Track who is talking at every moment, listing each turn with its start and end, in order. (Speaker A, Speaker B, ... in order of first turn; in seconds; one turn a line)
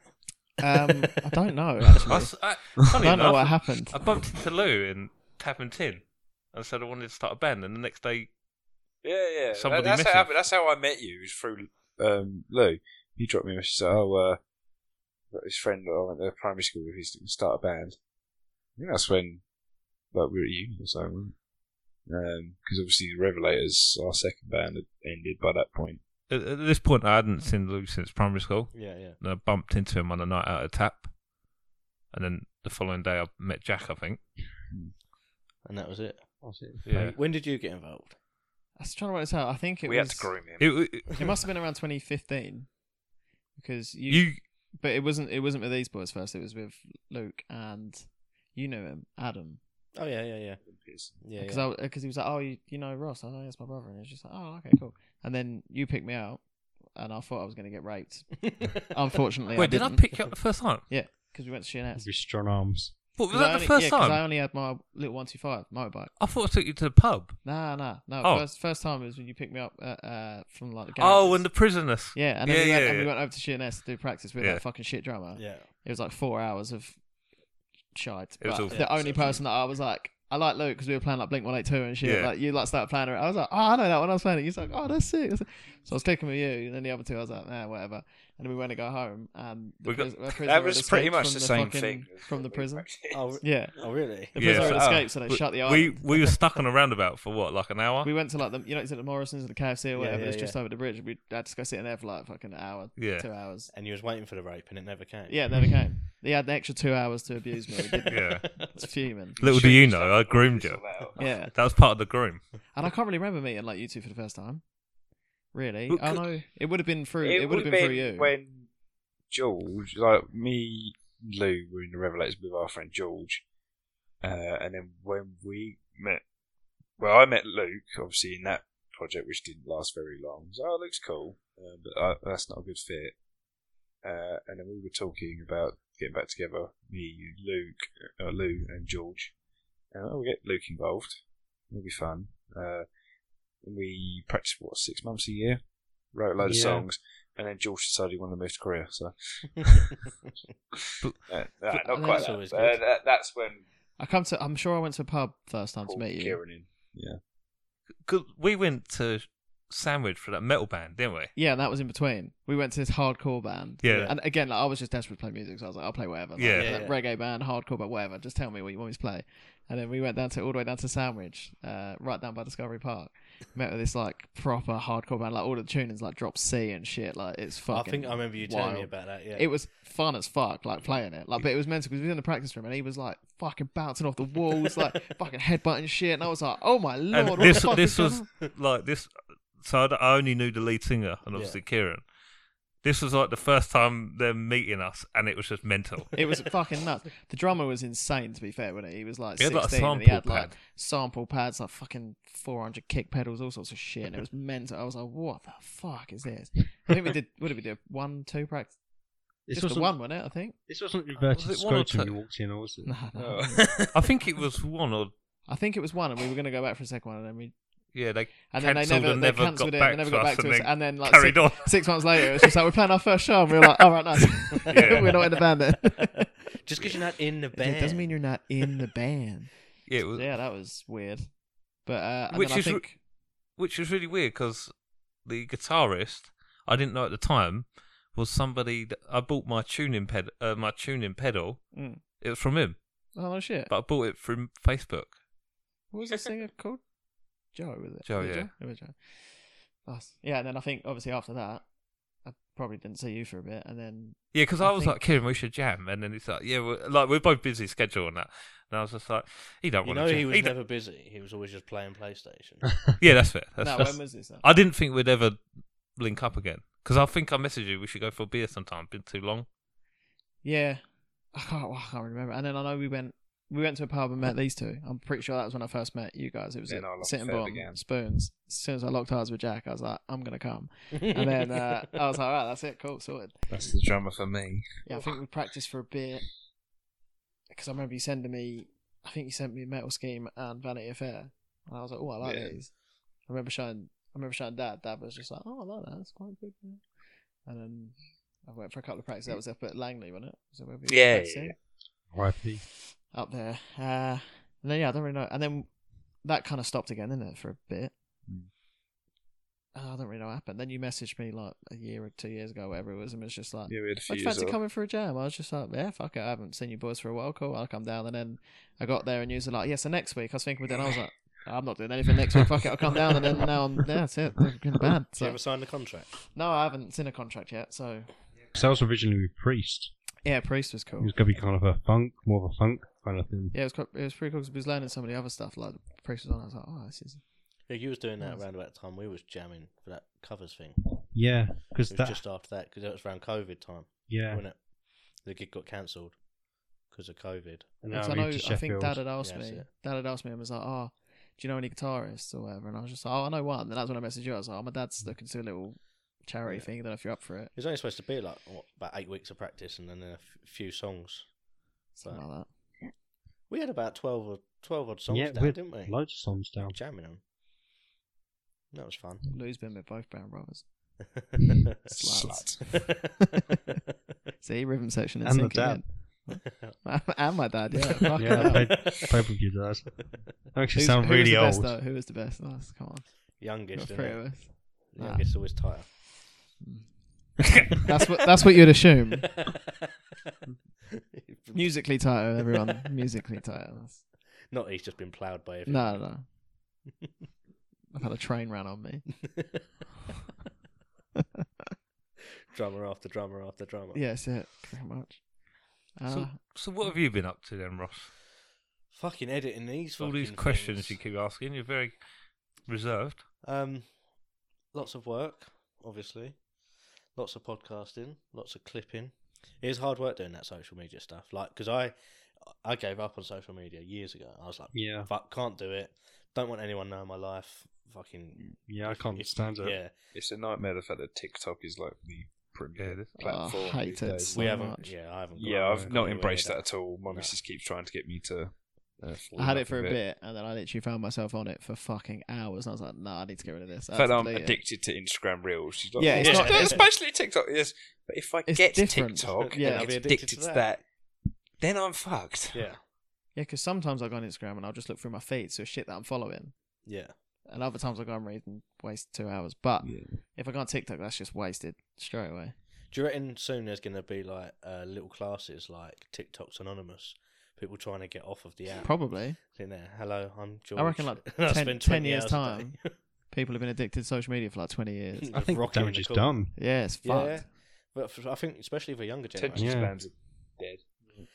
Speaker A: 0.6-4.0
Speaker B: 2.1-8.3
Speaker C: 9.0-14.5
Speaker B: 9.5-10.4
Speaker C: 15.3-18.0
Speaker C: 18.7-19.5
Speaker C: 20.0-26.0
Speaker B: 26.3-31.1
Speaker D: 28.7-29.2
Speaker B: 32.1-34.2
Speaker D: 35.6-38.2
Speaker E: 36.4-36.9
Speaker B: 36.9-37.2
Speaker A: 38.8-40.4
Speaker C: 39.8-40.9
Speaker B: 40.6-41.2
Speaker A: 41.0-42.8
Speaker A: 43.5-49.6
Speaker B: 44.1-44.4
Speaker D: 49.9-51.7
Speaker C: 50.6-51.2
Speaker A: 51.4-60.3
Speaker D: 58.5-58.8
Speaker B: 59.5-60.9
Speaker A: 60.9-62.1
Speaker E: 62.0-63.0
Speaker B: 63.2-64.2
Speaker A: 63.3-66.1
Speaker B: 66.2-67.4
Speaker A: 67.5-77.0
Speaker B: 68.2-68.5
Speaker B: 71.0-73.1
Speaker D: 75.4-75.7
Speaker A: 77.9-96.3
Speaker B: 78.4-78.8
Speaker D: 78.7-79.4
Speaker B: 82.0-82.3
Speaker B: 89.8-90.1
Speaker C: 90.3-93.4
Speaker D: 93.1-94.9
Speaker B: 94.4-98.1
Speaker C: 94.6-95.1
Speaker A: 98.0-103.7
Speaker D: 100.0-100.6
Speaker B: 103.0-103.3
Speaker D: 103.7-105.4
Speaker A: 105.3-109.4
Speaker D: 107.8-108.8
Speaker B: 108.1-108.5
Speaker C: 109.4-111.3
Speaker B: 109.4-112.4
Speaker A: 111.2-111.5
Speaker A: 112.7-114.6
Speaker A: 115.5-118.3
Speaker B: 115.9-116.3
Speaker C: 117.2-118.7
Speaker C: 119.3-123.5
Speaker C: 124.2-126.2
Speaker C: 127.0-133.2
Speaker C: 134.0-139.4
Speaker C: 139.9-142.9
Speaker C: 143.6-149.9
Speaker E: 146.4-146.9
Speaker B: 151.0-151.9
Speaker C: 151.3-153.6
Speaker A: 151.9-152.3
Speaker D: 152.0-152.9
Speaker A: 154.0-156.4
Speaker C: 155.8-157.2
Speaker B: 158.0-161.3
Speaker A: 161.3-188.3
Speaker B: 163.8-164.1
Speaker D: 163.9-164.2
Speaker B: 166.4-166.8
Speaker D: 166.5-167.0
Speaker D: 177.7-179.5
Speaker B: 187.1-192.1
Speaker D: 187.5-187.8
Speaker D: 191.3-191.6
Speaker B: 192.8-196.1
Speaker A: 196.1-208.8
Speaker B: 199.4-200.6
Speaker A: 209.4-210.6
Speaker E: 209.5-213.1
Speaker B: 211.2-212.2
Speaker A: 212.8-213.8
Speaker C: 213.2-213.9
Speaker B: 213.9-215.1
Speaker A: 215.5-217.6
Speaker B: 217.9-222.5
Speaker A: 218.5-226.3
Speaker B: 224.6-225.1
Speaker D: 226.6-228.2
Speaker A: 227.5-233.0
Speaker B: 229.9-230.3
Speaker B: 232.3-233.0
Speaker B: 233.5-243.1
Speaker A: 241.7-242.0
Speaker A: 243.1-243.7
Speaker B: 243.7-245.2
Speaker A: 245.9-255.0
Speaker B: 248.1-248.5
Speaker B: 254.3-260.6
Speaker D: 259.8-262.9
Speaker B: 263.0-269.5
Speaker A: 263.6-264.4
Speaker A: 270.4-283.5
Speaker C: 276.7-277.8
Speaker D: 280.9-281.6
Speaker C: 283.5-285.0
Speaker A: 284.9-286.3
Speaker A: 287.5-301.6
Speaker C: 292.2-292.6
Speaker C: 300.9-301.6
Speaker E: 302.1-302.6
Speaker A: 303.1-307.9
Speaker A: 309.8-325.4
Speaker C: 313.7-314.6
Speaker D: 325.2-326.1
Speaker A: 326.2-328.1
Speaker E: 328.5-329.9
Speaker A: 330.2-331.1
Speaker E: 331.0-333.6
Speaker A: 333.5-337.7
Speaker D: 337.7-341.3
Speaker A: 338.2-338.4
Speaker E: 341.1-342.2
Speaker D: 341.9-346.2
Speaker E: 344.1-344.4
Speaker D: 346.8-347.8
Speaker E: 347.8-349.1
Speaker A: 347.9-357.5
Speaker D: 349.2-349.7
Speaker D: 357.6-361.4
Speaker A: 361.9-362.9
Speaker D: 363.5-367.2
Speaker E: 365.1-366.8
Speaker D: 368.7-369.3
Speaker A: 369.3-371.0
Speaker D: 371.0-371.9
Speaker C: 371.9-372.9
Speaker A: 371.9-373.2
Speaker D: 372.6-373.3
Speaker A: 374.4-378.9
Speaker E: 375.2-375.9
Speaker E: 378.2-381.8
Speaker D: 378.3-379.0
Speaker A: 380.8-386.0
Speaker D: 383.4-385.9
Speaker A: 386.6-389.4
Speaker D: 391.0-392.6
Speaker A: 391.5-394.1
Speaker D: 394.5-396.1
Speaker A: 395.7-396.3
Speaker A: 397.9-399.2
Speaker D: 399.3-399.6
Speaker D: 402.5-404.0
Speaker A: 403.9-405.4
Speaker A: 405.9-406.4
Speaker B: 406.1-408.1
Speaker D: 408.9-411.0
Speaker B: 410.0-412.0
Speaker B: 412.6-413.2
Speaker D: 413.4-414.1
Speaker D: 414.7-416.5
Speaker D: 417.1-430.0
Speaker E: 424.7-425.1
Speaker E: 428.6-429.8
Speaker C: 430.1-434.4
Speaker B: 432.8-433.2
Speaker A: 433.2-434.9
Speaker D: 434.3-437.4
Speaker C: 435.3-440.0
Speaker E: 435.6-435.9
Speaker A: 439.4-444.6
Speaker C: 443.9-450.9
Speaker A: 446.0-446.8
Speaker D: 446.2-446.9
Speaker A: 448.5-450.0
Speaker D: 449.4-450.7
Speaker C: 451.6-452.7
Speaker D: 452.5-452.8
Speaker A: 453.4-456.8
Speaker D: 456.9-457.1
Speaker A: 457.5-462.6
Speaker C: 459.8-460.2
Speaker D: 462.9-472.9
Speaker A: 468.8-469.4
Speaker A: 470.8-475.5
Speaker D: 475.2-479.9
Speaker E: 475.3-476.6
Speaker A: 476.5-477.5
Speaker C: 479.3-481.3
Speaker E: 479.5-480.0